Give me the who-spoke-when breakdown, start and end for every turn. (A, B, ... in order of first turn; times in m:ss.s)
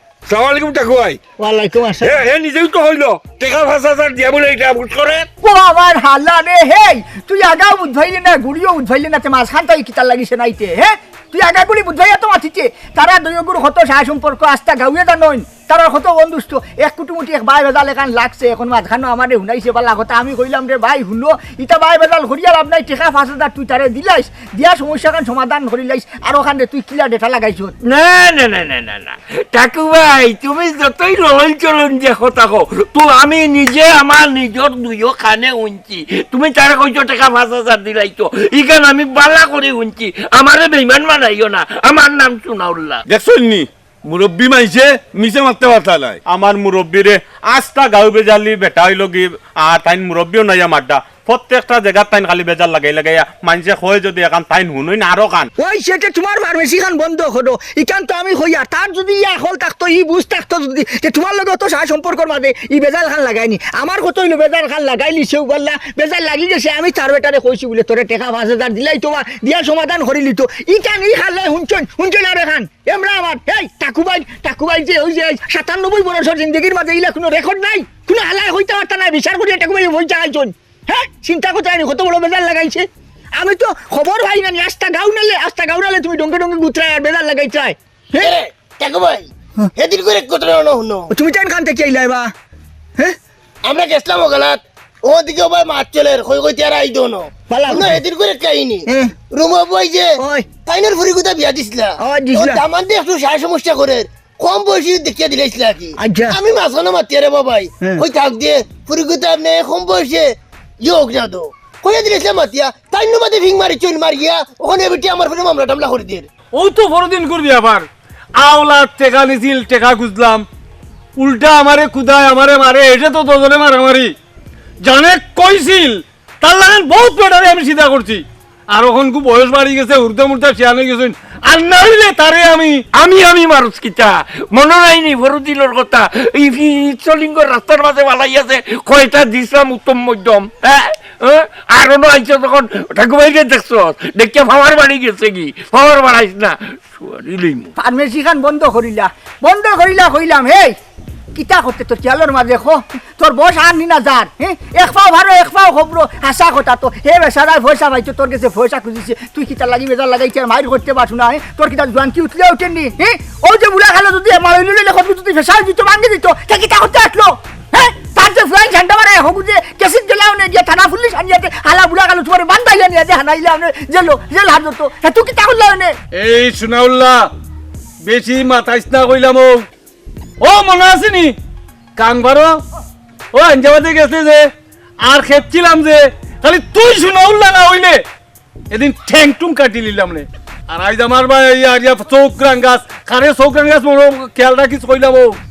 0:00.3-0:01.2 A
0:01.4-0:02.2 B
0:02.0-0:05.3 A
0:05.4-0:27.7 B
0:27.8-0:43.0 A
0:43.1-0:46.2 C
0:46.3-0:55.5 D
0:55.6-1:22.9 B
1:23.4-1:28.3 B
1:28.2-1:31.1 E
1:31.1-1:32.3 B
1:33.7-1:40.2 E
1:37.5-1:38.0 B
1:38.9-1:39.1 B
1:40.2-1:40.5 B
1:40.7-1:56.3 E
1:42.0-1:42.6 B
1:46.0-1:46.4 B
1:56.5-1:57.9 F
1:58.4-2:00.4 F
2:01.2-2:04.2 F
2:04.8-2:12.8 F
2:13.0-2:27.7 A
2:27.8-2:30.8 B
2:31.4-2:56.0 B
2:56.1-2:57.3 F
2:58.0-2:59.7 F
3:00.4-3:01.4 F
3:02.0-3:02.6 F
3:03.3-3:04.5 F
3:05.0-3:08.0 F
3:08.7-3:15.4 F